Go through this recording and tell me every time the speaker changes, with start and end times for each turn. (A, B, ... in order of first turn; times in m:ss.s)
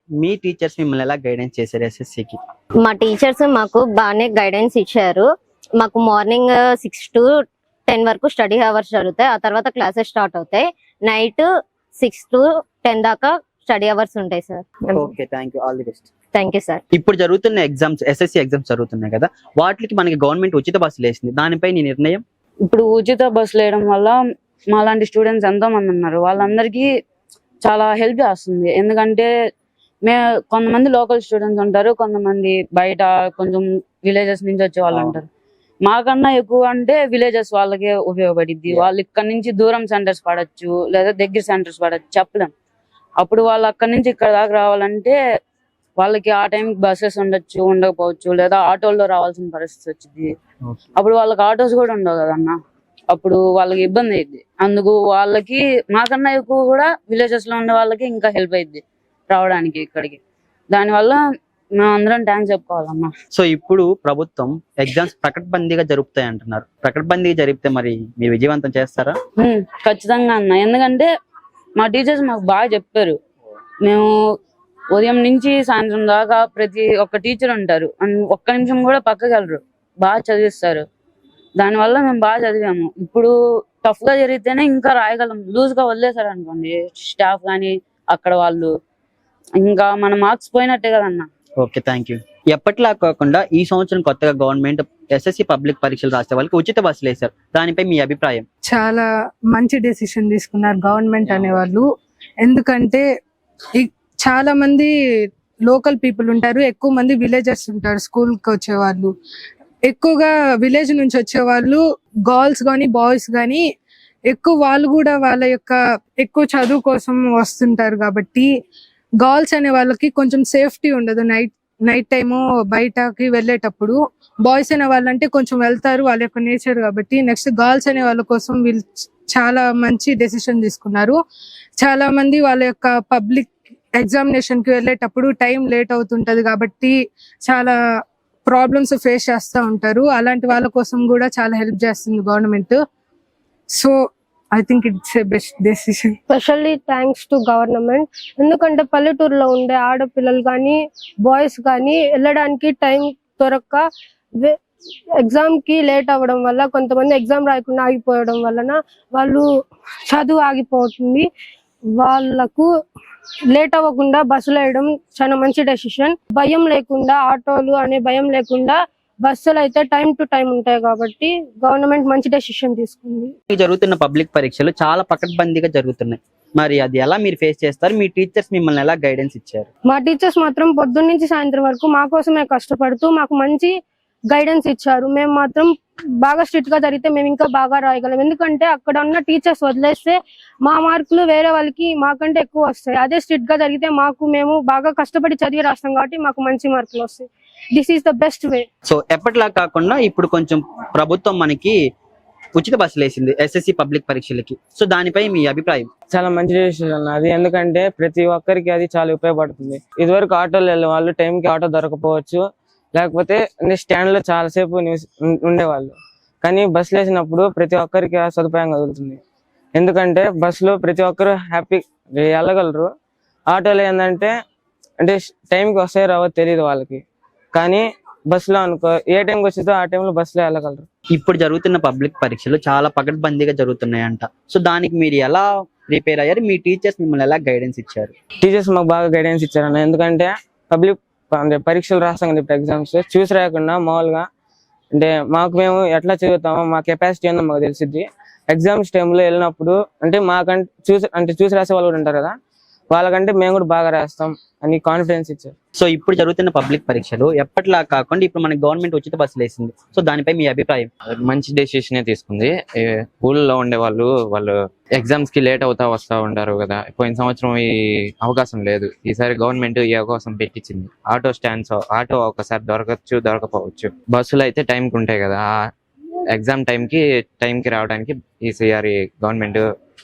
0:00.2-0:02.4 A
0:02.8-0:07.3 B
0:07.9-0:11.5 B
0:12.0-0:15.1 B
0:14.9-0:16.1 A
0:16.3-0:16.8 B
0:16.9-0:22.2 A
0:22.7-0:24.2 C
0:24.7-0:26.9 C
0:27.6-0:29.3 C
0:30.0-0:35.2 C
0:34.9-0:35.2 A
0:35.8-0:42.5 C
0:43.2-0:45.2 C
0:46.0-0:50.4 C
0:51.0-0:52.6 C
0:53.1-1:00.2 C
1:00.7-1:01.2 C
1:01.8-1:03.1 C
1:03.4-1:09.2 A
1:09.4-1:11.1 C
1:11.8-1:13.2 C
1:13.8-1:14.1 C
1:14.9-1:20.8 C
1:21.6-1:23.3 C
1:23.8-1:28.7 C
1:29.6-1:31.3 C
1:31.6-1:38.4 A
1:38.7-1:41.9 D
1:42.4-1:43.0 D
1:43.8-1:44.9 D
1:45.7-1:49.1 D
1:49.9-1:53.6 D
1:54.3-1:58.5 D
1:59.2-2:11.2 D
2:11.8-2:17.8 D
2:18.4-2:22.8 D
2:24.5-2:26.2 D
2:26.3-2:33.8 E
2:35.2-2:39.4 E
2:40.1-2:41.3 E
2:42.0-2:42.7 E
2:43.5-2:53.3 E
2:53.5-2:59.7 A
2:59.9-3:03.7 E
3:04.3-3:18.7 E
3:18.9-3:21.8 A
3:22.6-3:25.9 A
3:26.1-3:32.4 F
3:33.0-3:35.9 F
3:36.5-3:39.2 F
3:39.8-3:42.9 F
3:43.5-3:44.3 F
3:45.0-3:47.0 F
3:48.3-3:50.8 F
3:51.1-3:58.1 A
3:58.5-4:04.2 F
4:05.0-4:08.0 F
4:08.6-4:12.3 F
4:13.0-4:15.5 F
4:15.8-4:20.9 A
4:21.1-4:27.7 G
4:28.2-4:35.5 G
4:36.3-4:39.6 G